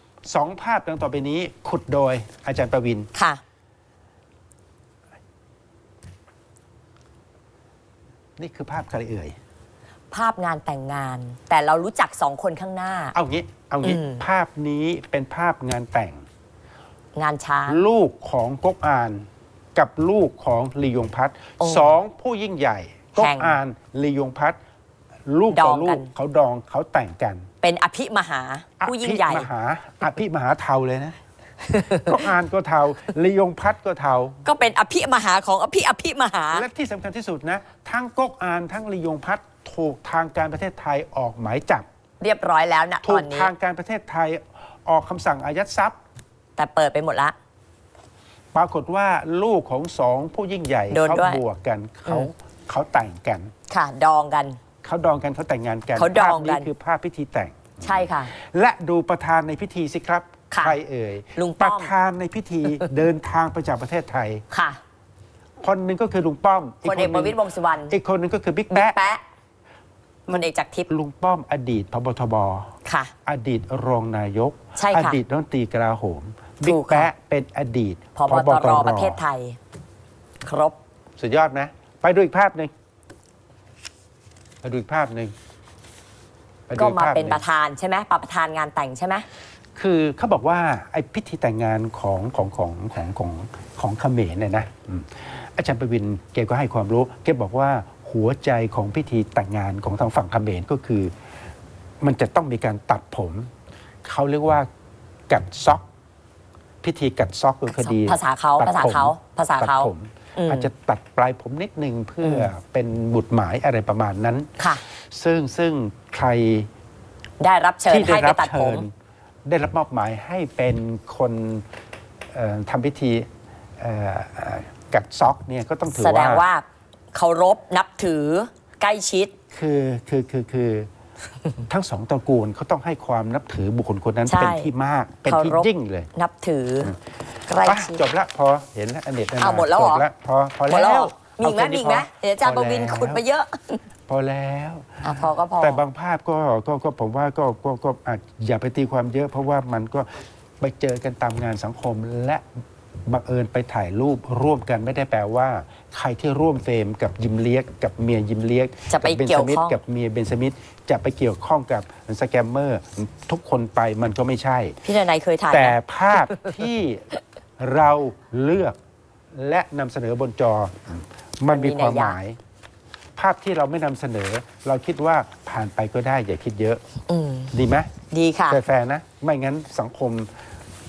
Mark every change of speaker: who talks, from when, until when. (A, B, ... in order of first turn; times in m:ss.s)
0:00.3-0:03.1 A
0:03.1-0:03.4 B
0:08.4-0:09.3 A
0:10.1-0:13.1 B
0:13.1-0:16.2 A
0:13.8-0:14.2 B
0:17.1-0:17.8 B
0:17.7-0:24.6 A
0:21.6-0:21.9 B
0:23.2-0:23.6 B
0:25.3-0:27.5 A
0:25.5-0:26.1 B
0:27.6-0:29.5 B
0:28.8-0:31.2 A
0:31.7-0:32.2 B
0:31.8-0:34.4 A
0:34.4-0:36.6 B
0:36.5-0:41.9 A
0:42.2-0:43.5 B
0:43.0-0:46.0 A
0:46.6-0:47.3 B
0:48.5-0:53.5 A
0:50.9-0:51.4 B
0:53.7-0:54.6 B
0:54.8-1:04.4 A
0:56.0-0:56.7 B
0:57.8-0:58.3 B
1:00.5-1:00.8 B
1:01.4-1:01.9 B
1:04.5-1:04.8 B
1:05.6-1:09.0 A
1:06.8-1:07.9 B
1:08.7-1:09.2 B
1:10.3-1:12.7 A
1:10.3-1:10.9 B
1:12.8-1:13.1 B
1:13.2-1:19.2 A
1:14.8-1:15.2 B
1:16.6-1:17.1 B
1:18.2-1:19.6 B
1:20.4-1:20.8 B
1:21.2-1:22.7 A
1:24.6-1:25.3 A
1:26.7-1:27.4 A
1:26.8-1:29.2 B
1:29.8-1:41.1 A
1:42.0-1:43.5 A
1:44.0-1:44.7 A
1:45.3-1:45.8 A
1:46.8-1:56.7 A
1:47.7-1:50.7 B
1:52.2-1:52.5 B
1:57.4-1:58.8 B
1:57.8-1:58.9 A
1:59.4-2:01.6 A
2:02.3-2:03.3 A
2:03.8-2:06.4 A
2:05.9-2:09.3 B
2:09.5-2:10.9 A
2:11.7-2:16.1 A
2:14.2-2:14.7 B
2:15.2-2:16.9 B
2:17.5-2:18.0 B
2:17.6-2:23.2 A
2:19.4-2:20.0 B
2:20.7-2:23.8 B
2:24.1-2:32.4 A
2:25.0-2:25.8 B
2:33.0-2:44.8 A
2:38.9-2:39.8 B
2:44.8-2:46.5 B
2:45.5-2:48.8 A
2:49.3-2:52.4 A
2:51.5-2:52.2 B
2:53.2-2:56.8 A
2:57.1-2:57.5 B
2:57.5-2:57.9 A
2:58.1-2:58.6 B
2:58.5-3:00.3 A